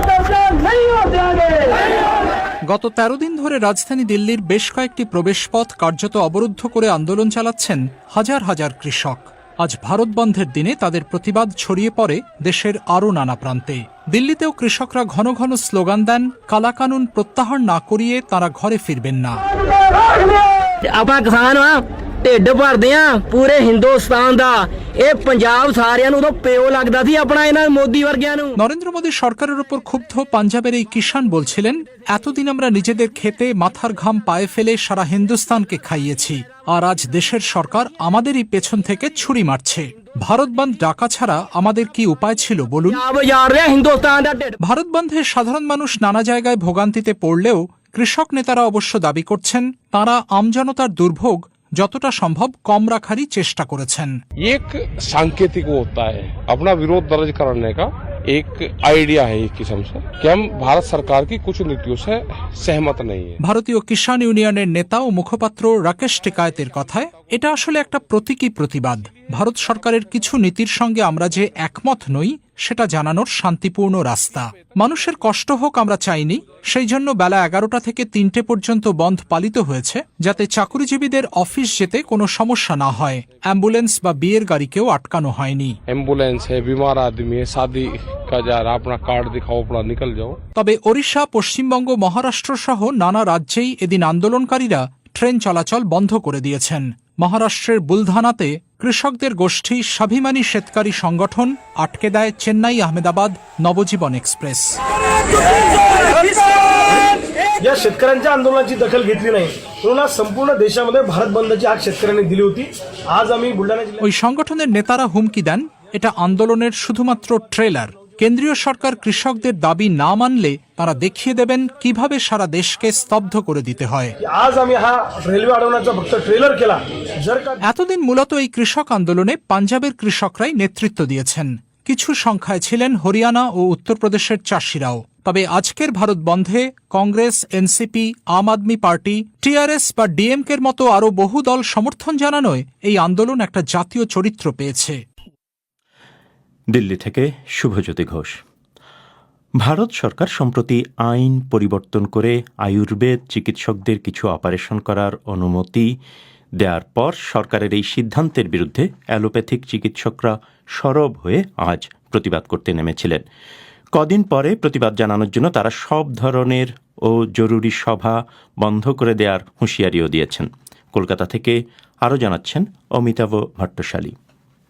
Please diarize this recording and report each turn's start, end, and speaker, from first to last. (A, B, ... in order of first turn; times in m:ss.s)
0:02.7-0:19.4 A
0:20.9-0:28.5 B
0:28.6-0:43.0 A
0:42.8-0:44.5 B
0:44.6-0:54.1 A
0:54.4-1:03.4 C
1:03.4-1:25.8 A
1:25.9-1:30.4 C
1:30.6-1:44.8 A
1:47.6-1:54.0 D
1:54.0-2:04.1 A
2:04.2-2:07.6 D
2:07.6-2:25.0 A
2:26.7-2:28.4 E
2:29.6-2:35.9 E
2:36.6-2:43.2 E
2:43.9-2:54.1 E